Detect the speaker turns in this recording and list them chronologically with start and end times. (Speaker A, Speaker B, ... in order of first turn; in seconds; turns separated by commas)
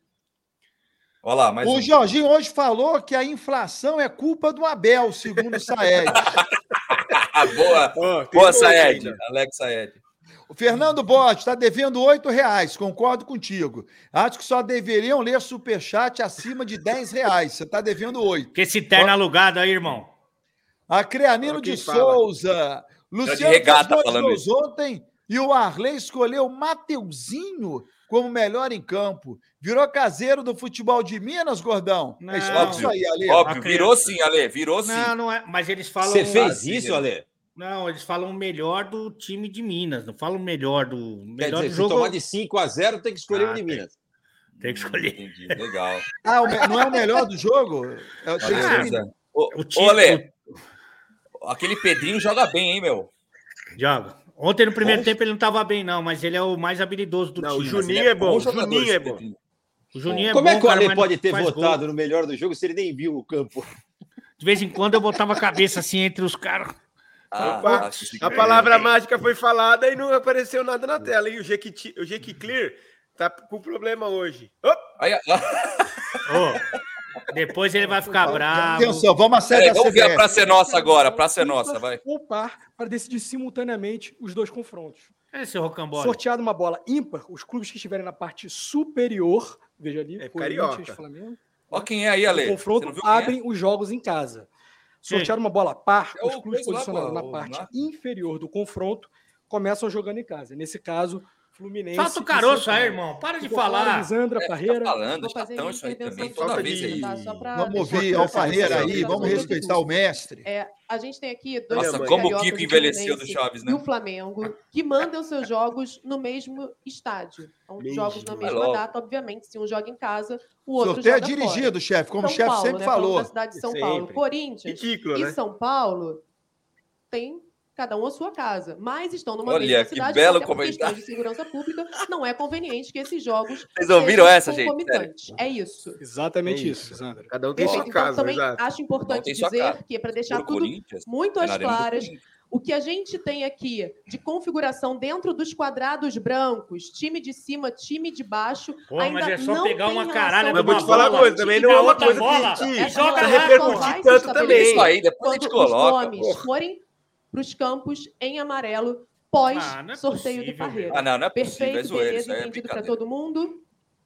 Speaker A: 1.2-1.9, Speaker B: 1.6-6.3, Speaker A: 6.1-10.0, Speaker C: 8.0-9.2, Speaker B: 10.5-19.1, Speaker D: 18.6-20.1, Speaker B: 20.9-33.5, Speaker C: 21.4-22.2, Speaker A: 23.2-24.4, Speaker D: 32.2-32.9, Speaker A: 32.5-35.1, Speaker D: 33.4-34.1, Speaker D: 34.8-36.5, Speaker E: 36.0-37.2, Speaker A: 36.3-37.1, Speaker D: 37.5-42.1, Speaker E: 41.4-43.9, Speaker D: 43.3-43.8, Speaker A: 44.6-46.0, Speaker D: 44.6-45.6, Speaker B: 46.2-49.0, Speaker A: 48.4-50.2, Speaker D: 48.4-49.0, Speaker D: 49.5-50.3, Speaker A: 51.4-53.1, Speaker D: 53.8-58.0, Speaker C: 57.4-59.2, Speaker A: 57.8-59.4, Speaker D: 59.9-61.8, Speaker E: 60.3-63.7, Speaker D: 64.4-66.7, Speaker A: 67.3-69.0, Speaker C: 67.4-74.8, Speaker D: 67.5-67.8, Speaker D: 68.4-68.7, Speaker A: 75.0-76.4, Speaker D: 76.3-76.6, Speaker D: 77.3-79.1, Speaker F: 77.8-79.1, Speaker B: 78.7-80.3, Speaker A: 79.5-82.0, Speaker F: 80.2-85.1, Speaker D: 85.3-86.2, Speaker F: 86.0-94.5, Speaker C: 90.2-91.0, Speaker A: 91.7-93.4, Speaker F: 95.0-105.0, Speaker D: 95.1-95.3, Speaker A: 96.2-97.7, Speaker D: 101.9-104.2, Speaker A: 104.3-107.1, Speaker G: 105.0-109.9, Speaker C: 106.2-109.5, Speaker B: 107.5-110.5, Speaker A: 108.5-109.4, Speaker G: 110.5-126.2, Speaker C: 111.7-112.4, Speaker A: 111.7-113.8, Speaker C: 117.8-118.6, Speaker A: 118.4-118.8, Speaker B: 120.8-123.3, Speaker C: 123.5-125.3, Speaker G: 127.1-136.0, Speaker A: 129.4-131.0, Speaker A: 133.7-135.1, Speaker F: 136.0-137.4, Speaker C: 136.4-138.6, Speaker G: 137.6-163.6, Speaker A: 139.1-142.2, Speaker D: 148.9-154.0, Speaker C: 150.5-154.9, Speaker A: 154.2-156.4, Speaker D: 159.5-161.0, Speaker A: 160.9-162.9